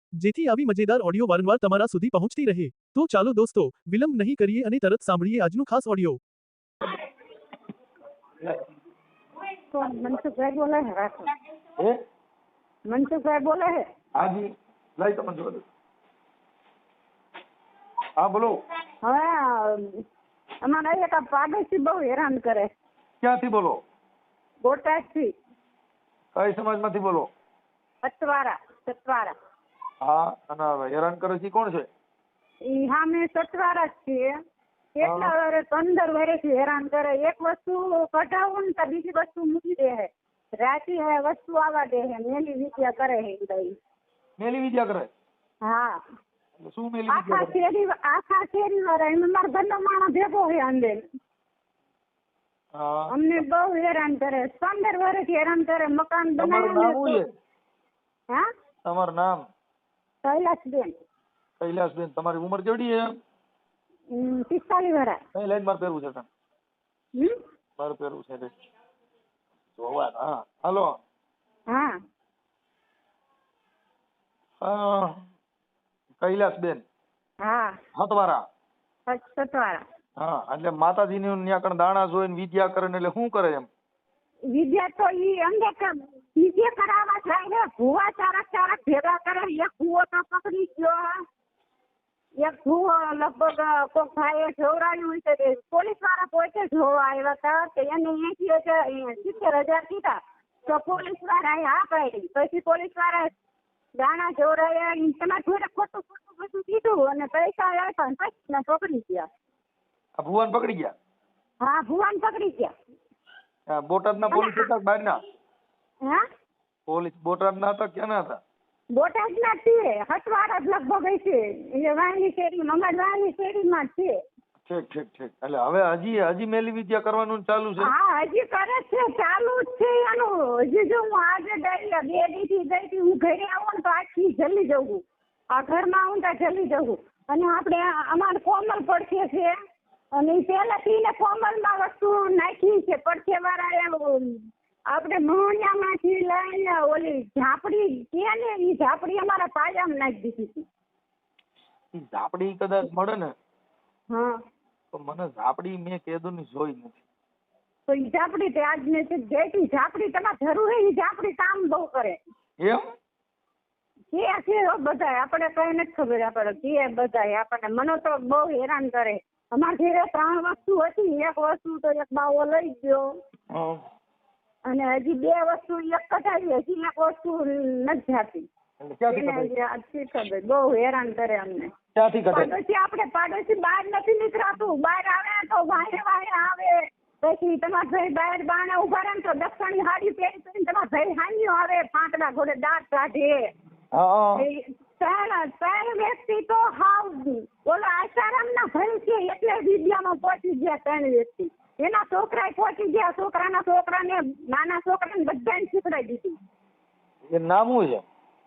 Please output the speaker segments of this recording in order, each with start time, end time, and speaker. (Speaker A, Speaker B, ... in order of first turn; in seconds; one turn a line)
Speaker A: 0.2-6.2
Speaker B: 9.7-11.3
Speaker B: 12.9-13.8
Speaker C: 14.2-15.6
Speaker C: 18.2-18.6
Speaker B: 19.0-20.0
Speaker B: 20.6-22.7
Speaker C: 23.2-23.8
Speaker B: 24.6-25.3
Speaker C: 26.4-27.3
Speaker B: 28.0-29.4
Speaker C: 30.0-31.9
Speaker B: 32.6-34.4
Speaker B: 35.0-40.1
Speaker C: 35.0-35.3
Speaker B: 40.6-43.8
Speaker C: 44.4-45.1
Speaker B: 45.6-46.0
Speaker C: 46.6-47.5
Speaker B: 47.1-51.0
Speaker C: 52.8-53.4
Speaker B: 53.1-57.2
Speaker C: 56.4-57.3
Speaker C: 58.9-59.5
Speaker B: 60.2-60.9
Speaker C: 61.6-63.1
Speaker B: 64.1-65.2
Speaker C: 65.3-66.3
Speaker C: 67.8-68.5
Speaker C: 69.8-71.0
Speaker B: 71.7-72.0
Speaker C: 74.6-75.2
Speaker C: 76.2-76.8
Speaker B: 77.4-77.8
Speaker C: 78.0-78.4
Speaker B: 79.1-79.8
Speaker C: 80.2-83.7
Speaker B: 84.5-91.2
Speaker B: 92.4-103.3
Speaker B: 104.0-109.3
Speaker C: 110.2-110.9
Speaker B: 111.6-112.7
Speaker C: 113.7-115.2
Speaker B: 114.3-114.7
Speaker C: 116.9-118.4
Speaker B: 119.0-124.2
Speaker C: 124.7-127.9
Speaker B: 127.8-139.6
Speaker B: 140.2-150.7
Speaker C: 151.9-153.3
Speaker B: 154.1-154.4
Speaker C: 154.9-157.0
Speaker B: 157.9-162.2
Speaker B: 164.1-173.1
Speaker C: 173.5-173.8
Speaker B: 174.7-178.5
Speaker C: 178.8-179.5
Speaker B: 179.1-181.7
Speaker C: 181.9-182.5
Speaker B: 182.3-193.5
Speaker C: 193.9-194.4
Speaker B: 194.4-206.4
Speaker C: 207.3-208.1